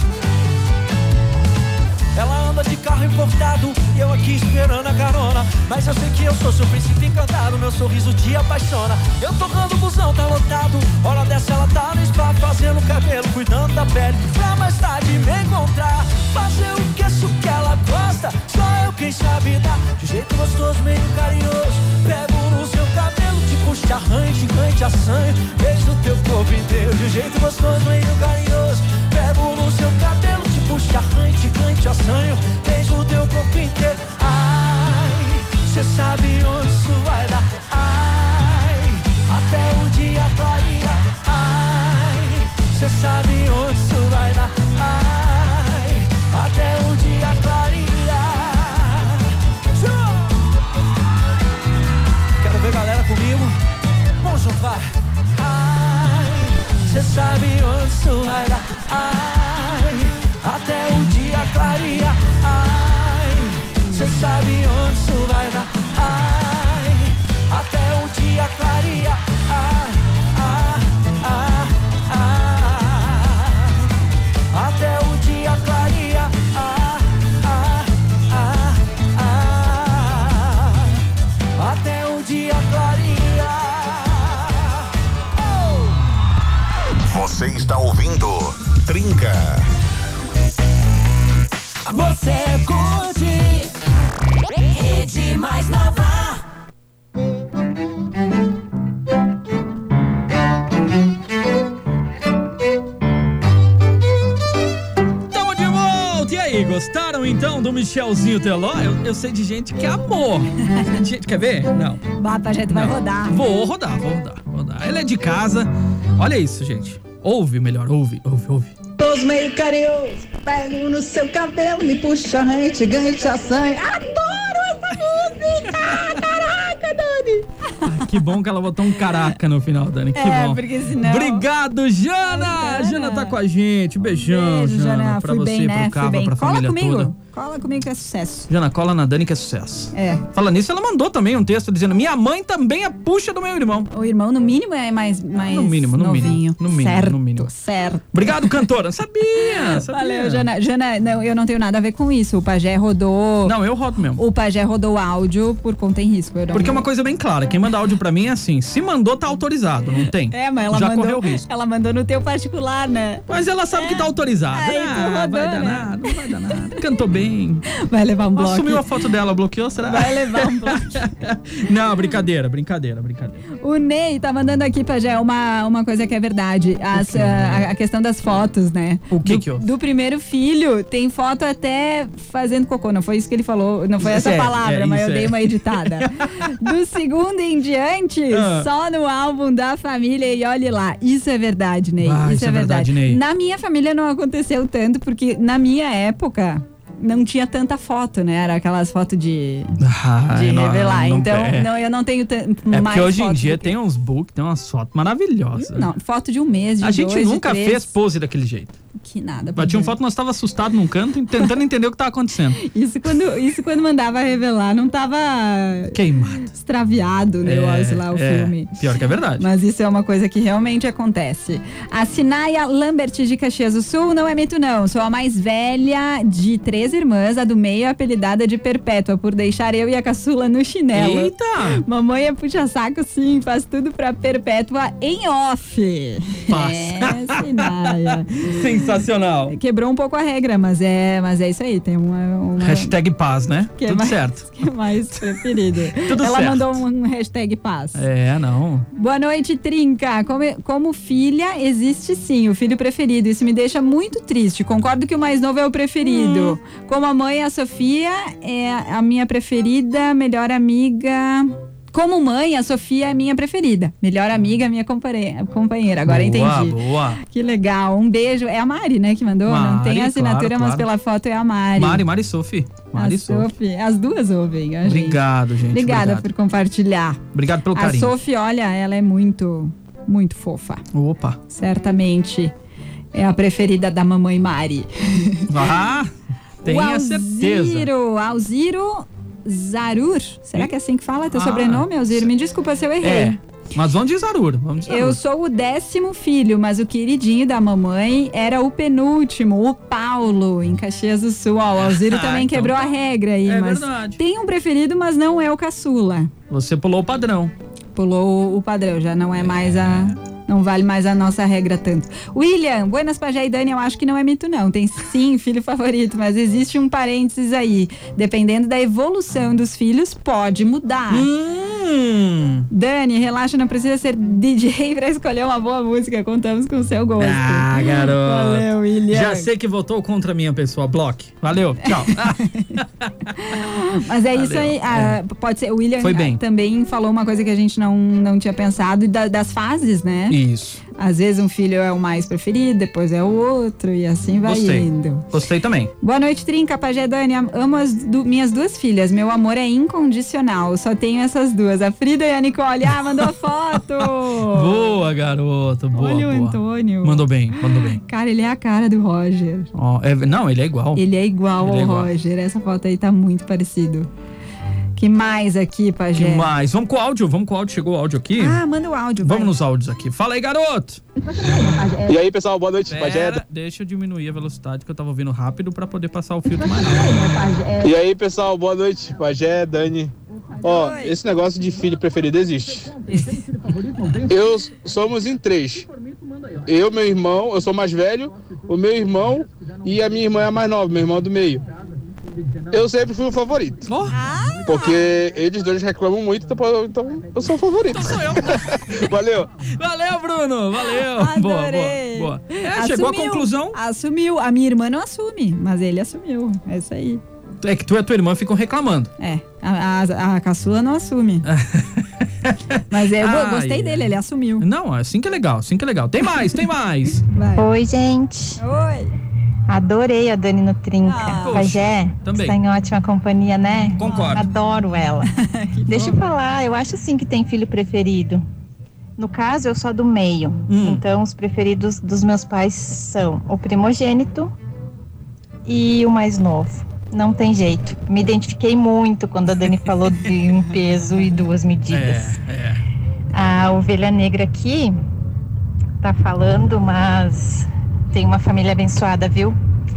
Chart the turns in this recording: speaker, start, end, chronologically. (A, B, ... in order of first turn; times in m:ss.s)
0:02.1-0:50.4 A
0:52.4-0:53.6 A
0:54.2-1:13.8 A
1:14.5-1:20.9 A
1:21.6-1:24.7 A
1:27.1-1:29.6 B
1:31.9-1:33.6 A
1:34.8-1:36.3 A
1:45.3-1:52.0 C
1:52.2-1:53.4 D
1:52.7-1:58.8 C
1:59.0-2:07.4 E
2:07.8-2:17.1 C
2:10.2-2:11.4 D
2:12.3-2:13.4 D
2:14.2-2:18.5 D
2:18.5-2:23.9 C
2:19.9-2:20.3 D
2:23.9-2:28.6 D
2:25.4-2:27.5 C
2:28.1-2:30.5 C
2:29.4-2:33.6 D
2:33.4-2:34.2 C
2:34.2-2:36.8 D
2:36.5-2:41.5 C
2:40.3-2:43.2 D
2:43.3-2:47.7 C
2:43.8-2:46.2 D
2:47.7-2:48.9 D
2:48.4-2:53.4 C
2:49.9-2:51.0 D
2:53.6-3:19.8 D
2:56.9-2:57.7 C
2:59.1-2:59.7 C
3:04.0-3:06.7 C
3:08.3-3:08.7 C
3:12.0-3:13.2 C
3:19.8-3:21.7 C
3:20.3-3:23.7 D
3:22.7-3:25.9 C
3:25.6-3:27.9 D
3:26.8-3:28.8 C
3:29.0-3:30.0 D
3:29.6-3:32.6 C
3:32.6-3:38.7 D
3:35.9-3:36.5 C
3:37.4-3:39.5 C
3:39.4-3:58.6 D
3:50.9-3:51.8 C
3:56.5-3:59.6 C
3:59.5-4:03.0 D
4:02.6-4:04.6 C
4:03.8-4:08.0 D
4:06.0-4:06.8 C
4:08.0-4:08.9 C
4:08.9-4:32.1 D
4:16.0-4:16.6 C
4:26.0-4:27.2 C
4:29.5-4:30.9 C
4:31.8-4:33.5 C
4:33.0-4:37.2 D
4:34.8-4:36.3 C
4:37.3-4:38.2 C
4:37.7-4:40.8 D
4:40.9-4:41.4 C
4:41.5-4:42.5 D
4:43.1-4:45.6 D
4:45.5-4:47.9 C
4:46.6-4:53.4 D
4:51.3-4:52.3 C
4:53.0-4:55.2 C
4:54.9-5:06.3 D
5:01.8-5:04.2 C
5:06.5-5:07.5 C
5:08.0-5:21.3 D
5:09.4-5:10.2 C
5:21.1-5:22.7 C
5:22.7-5:29.5 D
5:27.2-5:33.3 C
5:31.9-5:32.8 D
5:33.4-5:40.4 D
5:34.3-5:35.2 C
5:36.0-5:36.4 C
5:40.3-5:40.8 C
5:41.0-5:45.3 D
5:44.4-5:45.9 C
5:46.0-5:54.9 D
5:54.0-5:58.0 C
5:55.9-5:59.7 D
5:59.7-6:01.0 C
6:01.0-6:04.1 D
6:01.6-6:02.1 C
6:05.0-6:06.5 D
6:06.2-6:08.6 C
6:08.4-6:09.6 D
6:09.2-6:11.0 C
6:11.3-6:12.1 D
6:12.1-6:13.4 F
6:12.9-6:17.2 C
6:16.5-6:17.9 D
6:17.8-6:20.1 F
6:20.6-6:23.0 F
6:20.7-6:21.2 D
6:23.1-6:23.4 D
6:24.3-6:25.9 F
6:26.6-6:31.6 F
6:32.7-6:33.9 F
6:33.9-6:34.2 C
6:34.1-6:35.1 D
6:34.7-6:39.5 F
6:37.9-6:43.8 C
6:41.0-6:47.2 D
6:47.6-6:49.1 C
6:49.2-6:51.5 D
6:51.4-6:57.2 C
6:52.9-6:54.7 D
6:57.3-6:57.7 D
6:57.5-6:58.6 G
6:58.6-6:59.1 D
6:59.7-7:05.3 G
7:01.0-7:01.7 D
7:01.3-7:02.6 C
7:04.0-7:04.4 C
7:04.1-7:04.4 D
7:05.4-7:06.2 D
7:05.9-7:08.4 G
7:09.2-7:14.5 G
7:10.7-7:11.0 C
7:15.6-7:22.4 G
7:21.9-7:22.8 C
7:23.3-7:24.9 G
7:26.0-7:29.6 G